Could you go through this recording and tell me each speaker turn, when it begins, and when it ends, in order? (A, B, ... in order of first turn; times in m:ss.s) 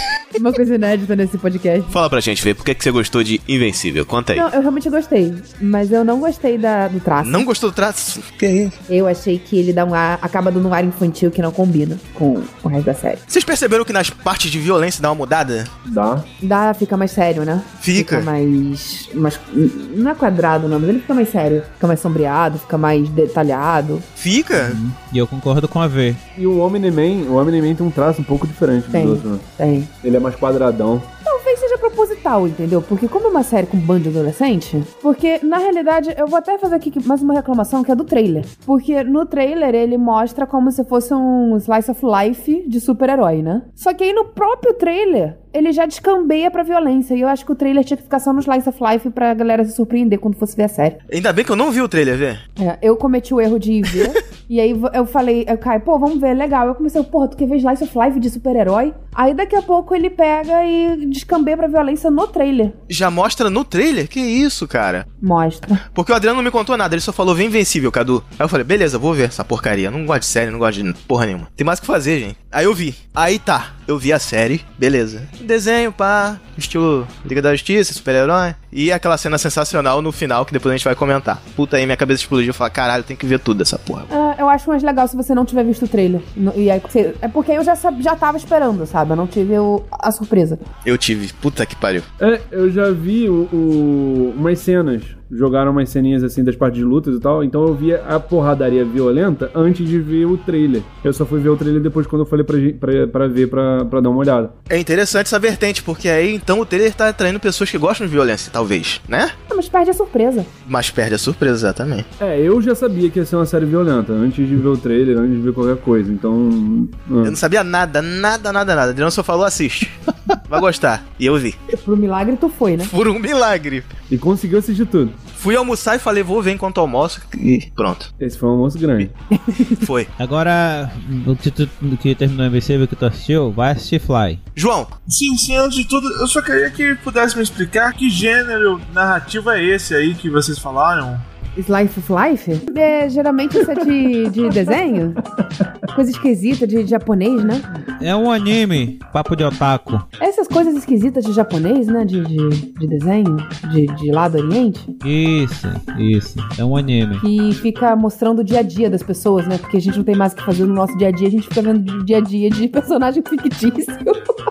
0:00.4-0:02.0 A
0:01.9-0:04.4 B
0:04.3-0:07.4 A
0:07.2-0:08.8 B
0:08.9-0:13.2 A
0:13.3-0:15.7 B
0:15.8-0:16.3 C
0:16.4-0:24.0 A
0:17.8-0:18.3 B
0:24.2-0:24.8 B
0:24.5-0:26.2 D
0:26.4-0:29.4 C
0:28.9-0:29.9 A
0:30.0-0:31.1 C
0:31.2-0:51.0 A
0:51.1-0:52.4 B
0:52.6-1:02.8 A
1:02.9-1:05.1 B
1:05.2-1:05.8 A
1:05.9-1:24.1 B
1:24.1-1:30.6 A
1:30.8-1:32.0 B
1:32.2-1:44.5 C
1:44.7-1:49.3 B
1:49.5-1:50.5 A
1:50.6-1:52.0 B
1:52.2-1:57.4 C
1:57.2-2:01.6 B
2:01.7-2:02.9 A
2:02.8-2:03.9 B
2:04.1-2:05.2 C
2:05.4-2:08.1 B
2:08.2-2:09.1 C
2:09.4-2:09.8 A
2:09.8-2:10.1 B
2:10.2-2:14.4 D
2:14.6-2:14.9 B
2:15.1-2:21.2 E
2:21.6-2:25.2 A
2:25.9-2:27.7 A
2:28.0-2:30.0 D
2:30.2-2:34.9 A
2:35.0-2:37.2 D
2:37.2-2:44.2 A